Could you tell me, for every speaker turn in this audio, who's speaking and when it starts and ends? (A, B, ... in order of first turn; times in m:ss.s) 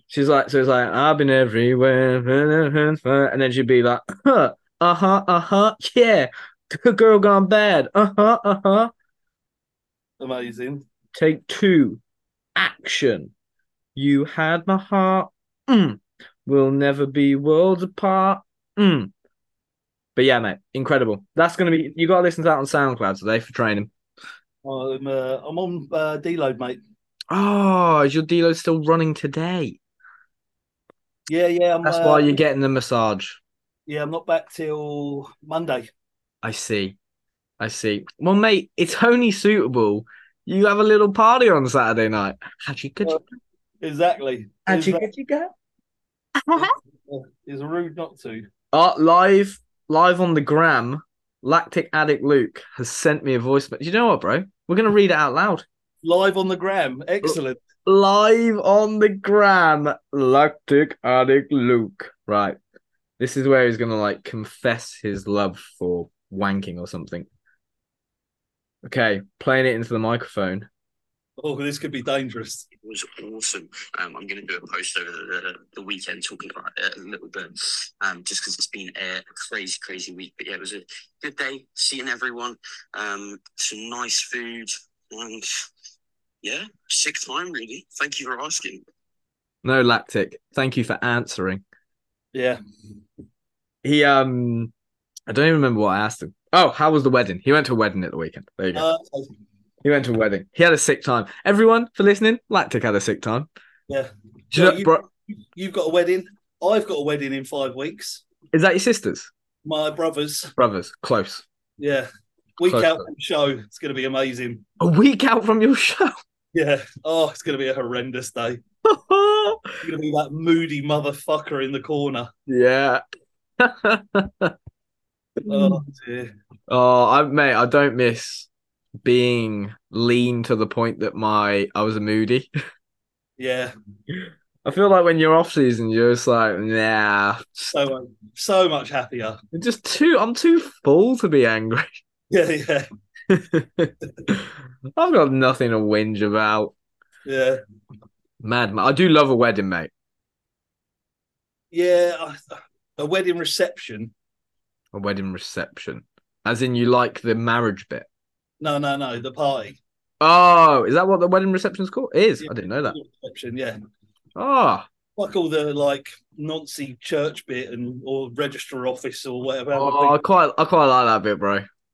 0:00.1-0:08.9 A
0:10.2-0:10.8 B
0:11.1-0:12.0 A
0:12.6-0:13.3 A
0:14.0-0:19.1 A
0:20.2-0:23.9 A
0:24.6-0:26.8 B
0:27.3-0:29.8 A
0:31.3-0:32.3 B
0:31.8-0:33.4 A
0:33.9-0:35.9 B
0:36.4-0:37.0 A
0:37.6-0:43.2 A
0:43.8-0:45.1 B
0:44.7-0:45.5 A
0:46.4-0:46.7 A
0:46.6-0:48.4 B
0:48.7-0:55.6 A
0:56.0-0:57.6 B
0:57.2-1:02.6 A
1:03.2-1:07.3 A
1:08.8-1:10.7 A
1:11.4-1:12.7 B
1:12.8-1:25.5 C
1:26.4-1:28.8 C
1:29.6-1:31.6 A
1:32.3-1:32.6 B
1:33.8-1:34.7 A
1:35.3-1:38.8 A
1:38.7-1:39.3 B
1:39.8-1:43.5 A
1:43.9-1:48.2 B
1:44.5-1:45.0 A
1:48.5-1:49.3 A
1:49.6-1:50.5 B
1:50.6-1:51.4 A
1:51.8-1:52.1 B
1:52.6-1:54.6 B
1:52.6-1:53.0 A
1:54.8-1:56.1 A
1:56.5-1:58.6 B
1:58.8-1:59.7 A
1:59.8-2:02.3 B
2:02.5-2:03.0 A
2:03.6-2:04.5 A
2:05.4-2:05.8 A
2:05.5-2:06.3 B
2:06.7-2:08.5 A
2:09.0-2:12.5 A
2:13.4-2:13.7 B
2:14.1-2:17.8 A
2:17.7-2:19.4 B
2:19.5-2:22.0 A
2:22.3-2:22.8 B
2:23.3-2:26.7 A
2:27.2-2:27.6 B
2:28.4-2:29.9 A
2:31.7-2:34.1 B
2:34.9-2:38.1 A
2:38.6-2:39.8 B
2:40.2-2:43.0 A
2:42.4-2:43.8 B
2:44.4-2:44.9 A
2:45.2-2:50.2 B
2:49.7-2:51.6 A